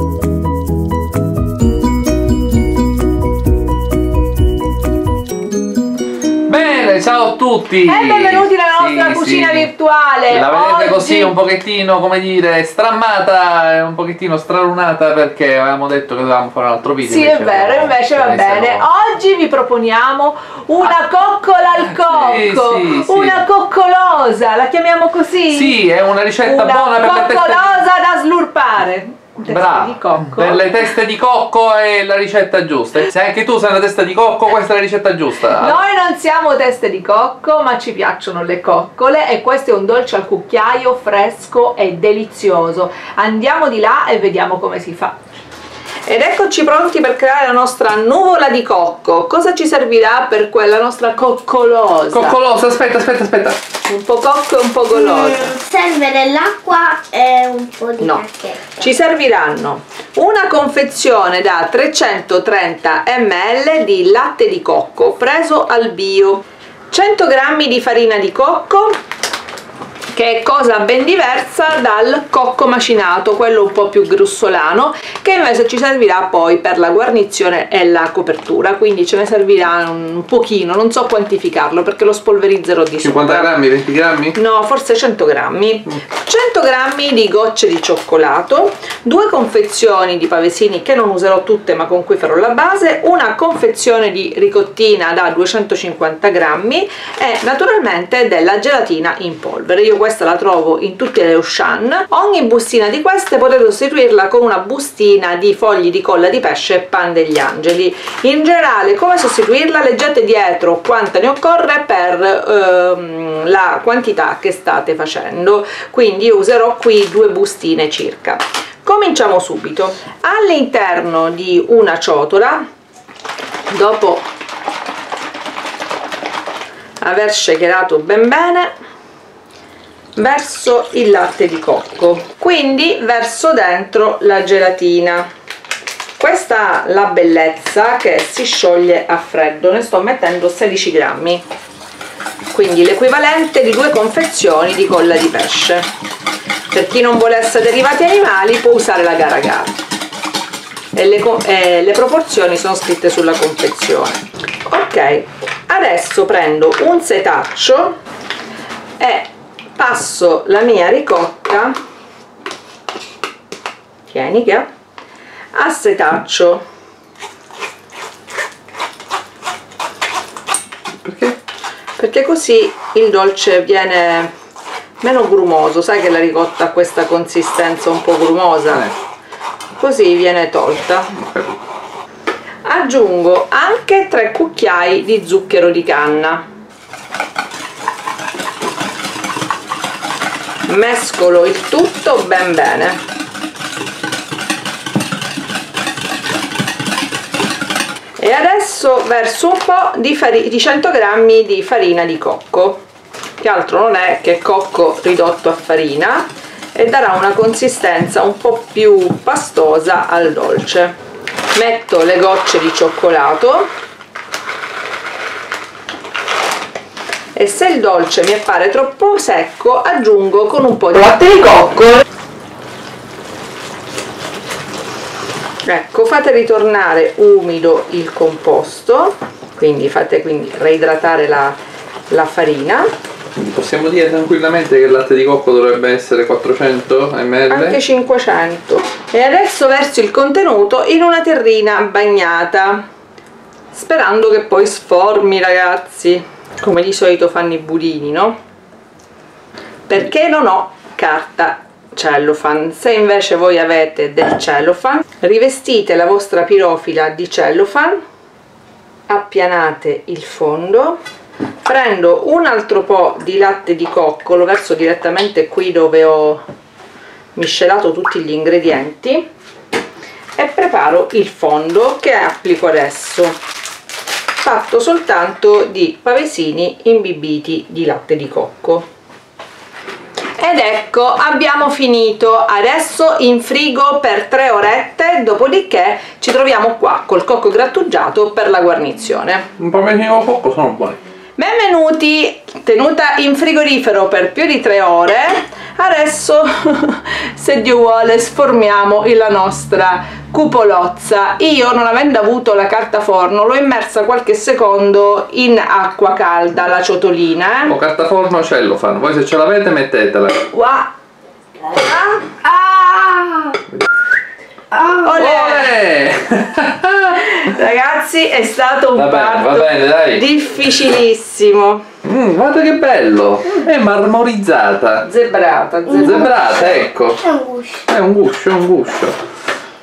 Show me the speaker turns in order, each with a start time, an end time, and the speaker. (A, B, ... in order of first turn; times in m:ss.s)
0:06.5-0:09.7 A
0:07.8-0:11.3 B
0:10.3-0:18.9 A
0:17.0-0:25.8 B
0:21.9-0:23.5 A
0:25.5-0:27.8 A
0:26.4-0:30.7 B
0:29.4-0:35.8 A
0:35.5-0:45.2 B
0:46.1-0:52.4 B
0:52.1-0:53.6 A
0:53.9-0:55.6 B
0:55.3-0:58.8 C
0:58.0-1:09.0 B
1:10.1-1:23.6 B
1:23.0-1:24.4 A
1:24.4-2:02.6 B
2:03.7-2:04.3 B
2:07.0-2:08.7 B
2:10.2-2:15.3 B
2:16.2-2:21.4 B
2:22.5-2:25.9 B
2:26.7-2:29.8 B
2:30.9-2:38.0 B
2:39.0-2:41.8 B
2:44.1-2:44.7 B
2:45.5-2:46.6 B
2:51.0-2:51.4 A
2:52.0-2:54.3 B
2:55.0-2:58.9 B
2:59.8-3:01.1 B
3:01.1-3:01.6 A
3:02.6-3:06.4 B
3:10.7-3:13.0 B
3:18.2-3:22.8 B
3:23.4-3:31.0 B
3:31.5-3:33.7 B
3:37.4-3:42.0 B
3:45.6-3:51.6 B
3:52.1-3:52.9 B
3:53.4-3:57.8 A
3:57.5-4:02.8 B
4:03.7-4:08.4 B
4:09.9-4:18.0 B
4:19.1-4:21.0 B
4:21.6-4:26.4 B
4:27.4-4:29.3 B
4:30.4-4:33.4 B
4:34.4-4:38.9 B
4:40.4-4:49.5 B
4:49.6-4:51.0 A
4:51.4-5:07.8 B
5:07.7-5:10.4 A
5:10.5-5:10.9 B
5:11.7-5:13.6 B
5:14.9-5:15.8 B
5:15.1-5:17.3 A
5:17.4-5:21.8 B
5:19.0-5:20.2 A
5:22.0-5:25.1 A
5:25.0-5:26.8 B
5:25.9-5:27.3 A
5:27.2-5:27.8 C
5:27.9-5:29.2 A